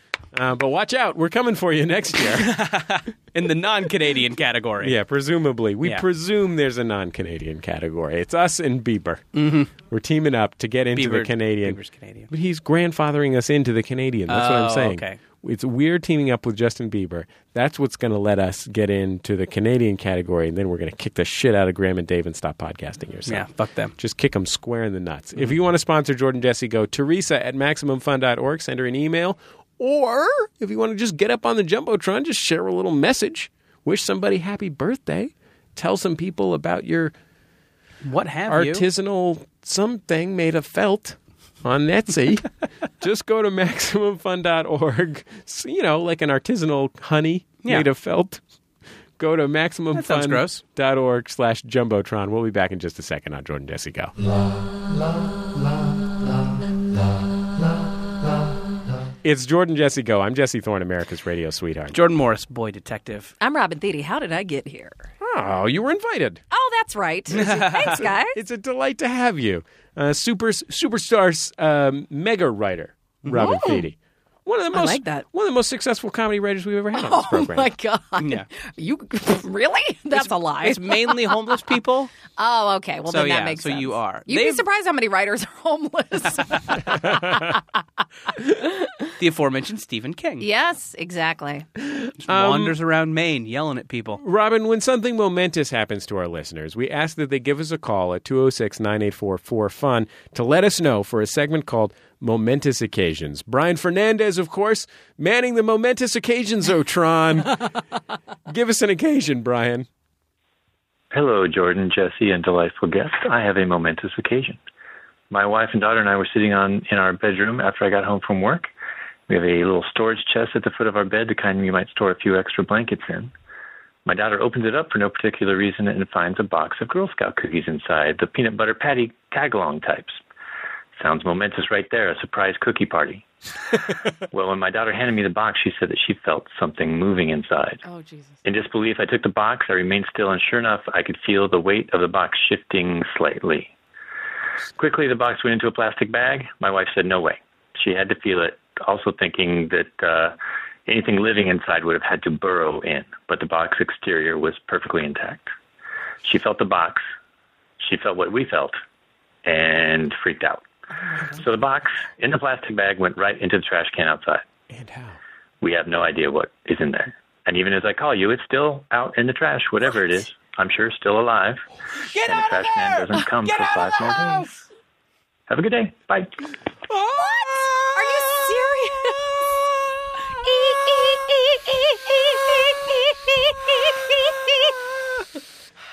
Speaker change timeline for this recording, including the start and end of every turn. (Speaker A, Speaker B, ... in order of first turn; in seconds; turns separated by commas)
Speaker A: 0.3-2.6, Speaker B: 2.2-5.0, Speaker A: 4.8-37.1, Speaker B: 9.3-9.7, Speaker B: 10.9-12.3, Speaker B: 14.3-15.2, Speaker B: 23.3-23.9, Speaker B: 38.0-38.9, Speaker A: 38.5-42.5, Speaker A: 43.0-48.4, Speaker A: 49.2-54.1, Speaker B: 49.9-50.6, Speaker A: 59.2-62.0, Speaker B: 61.9-63.3, Speaker C: 63.4-65.1, Speaker A: 65.2-66.4, Speaker C: 66.5-68.4, Speaker B: 67.3-68.0, Speaker A: 67.3-77.7, Speaker B: 73.2-73.6, Speaker C: 73.3-73.8, Speaker C: 74.7-75.2, Speaker C: 76.9-81.7, Speaker B: 78.2-78.5, Speaker B: 80.1-82.1, Speaker C: 82.4-87.6, Speaker B: 83.1-84.6, Speaker C: 88.5-88.9, Speaker B: 89.2-90.5, Speaker C: 90.4-91.7, Speaker A: 91.8-92.8, Speaker B: 92.2-94.2, Speaker A: 94.2-107.7, Speaker A: 108.5-109.9, Speaker D: 111.1-114.6, Speaker D: 115.3-118.7, Speaker D: 119.3-123.3, Speaker D: 124.0-130.2, Speaker D: 131.0-133.3, Speaker D: 134.3-137.8, Speaker C: 137.8-138.4, Speaker D: 138.4-143.7, Speaker D: 144.8-150.3, Speaker D: 150.9-155.5, Speaker D: 156.2-157.0, Speaker D: 157.8-158.8, Speaker D: 159.4-160.7, Speaker C: 161.1-161.4, Speaker D: 161.4-164.4, Speaker A: 164.7-165.2, Speaker D: 165.6-171.7, Speaker A: 172.1-174.5, Speaker D: 172.2-174.5, Speaker D: 175.5-176.3, Speaker A: 176.9-179.8, Speaker C: 177.2-179.2, Speaker A: 180.4-181.2, Speaker C: 180.4-184.7, Speaker A: 184.7-185.2